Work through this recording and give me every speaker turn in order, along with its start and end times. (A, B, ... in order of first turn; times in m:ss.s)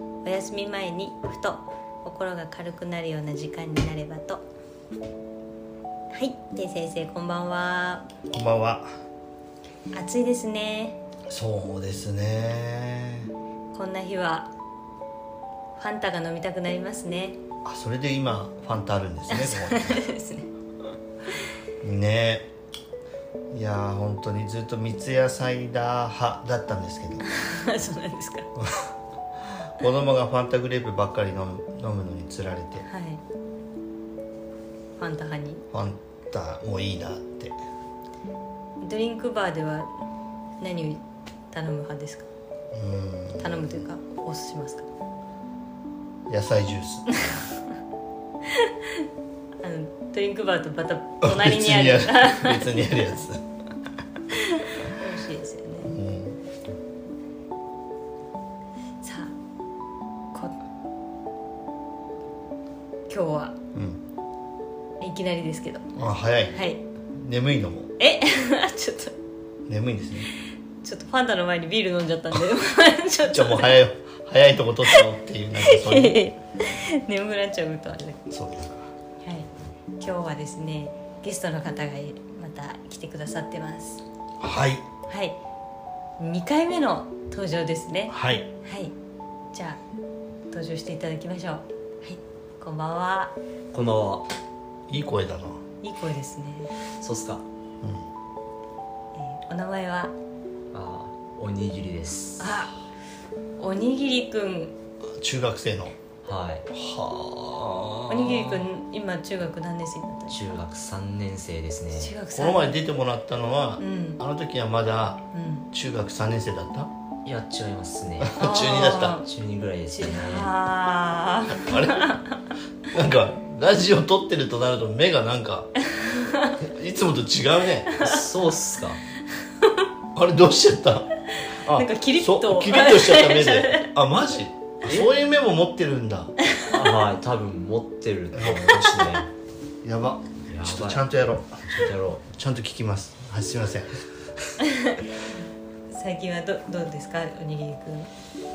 0:00.2-0:04.4 A
0:06.1-0:08.0 A
0:08.3-0:08.9 B
0:09.9-0:11.0 A
0:11.3-0:13.3 B
0:13.7-0:14.5 A
0:15.8-0:17.4 A
0:17.6-0:20.0 B
0:19.3-0:20.5 A
0:21.8-0:22.5 B
0:23.5-0:27.2 B
0:27.3-0:28.5 A
0:28.5-0:28.9 B
0:29.7-0:32.8 B
0:32.8-0:33.2 A
0:35.0-0:35.6 A
0:35.7-0:37.6 B
0:38.8-0:39.9 A
0:40.6-0:42.3 A
0:42.7-0:43.8 B
0:43.4-0:44.9 A
0:46.3-0:47.2 B
0:47.1-0:47.4 A
0:48.5-0:49.0 A
0:49.6-0:52.9 A
0:51.2-0:53.4 B
0:54.4-0:56.0 A
0:55.8-0:56.4 B
0:59.0-0:59.3 A
1:03.1-1:03.6 A
1:03.7-1:04.0 B
1:05.0-1:05.9 A
1:06.0-1:06.6 B
1:06.5-1:06.8 A
1:07.1-1:07.9 B
1:08.0-1:09.1 A
1:09.7-1:10.3 B
1:10.8-1:13.8 A
1:13.3-1:16.2 B
1:15.6-1:18.2 A
1:18.3-1:18.9 B
1:19.2-1:19.5 A
1:20.0-1:24.0 A
1:24.4-1:24.8 B
1:25.1-1:25.4 A
1:26.2-1:28.9 A
1:28.1-1:28.5 B
1:29.5-1:29.8 A
1:30.5-1:33.3 A
1:33.7-1:34.2 C
1:34.9-1:35.6 B
1:35.8-1:36.7 A
1:37.0-1:37.4 C
1:37.8-1:38.1 B
1:39.1-1:40.1 A
1:40.7-1:42.6 C
1:42.4-1:42.7 A
1:43.6-1:44.7 A
1:45.1-1:45.9 B
1:46.2-1:46.6 C
1:46.7-1:48.7 B
1:48.1-1:50.6 A
1:50.3-1:52.1 C
1:51.9-1:52.8 A
1:52.3-1:56.9 B
1:53.8-1:54.2 A
1:55.3-1:55.7 A
1:57.2-1:58.4 C
1:58.2-1:59.2 B
1:58.4-1:59.2 A
1:59.1-2:00.5 C
1:59.9-2:02.4 A
2:01.5-2:02.0 B
2:02.9-2:05.7 B
2:05.9-2:06.6 A
2:06.6-2:07.9 B
2:08.0-2:09.0 C
2:10.1-2:16.3 B
2:11.4-2:13.9 A
2:14.8-2:15.1 C
2:16.6-2:19.3 C
2:18.3-2:18.8 B
2:19.8-2:24.5 B
2:20.5-2:21.0 C
2:21.6-2:22.2 C
2:24.6-2:25.4 A
2:25.9-2:28.1 A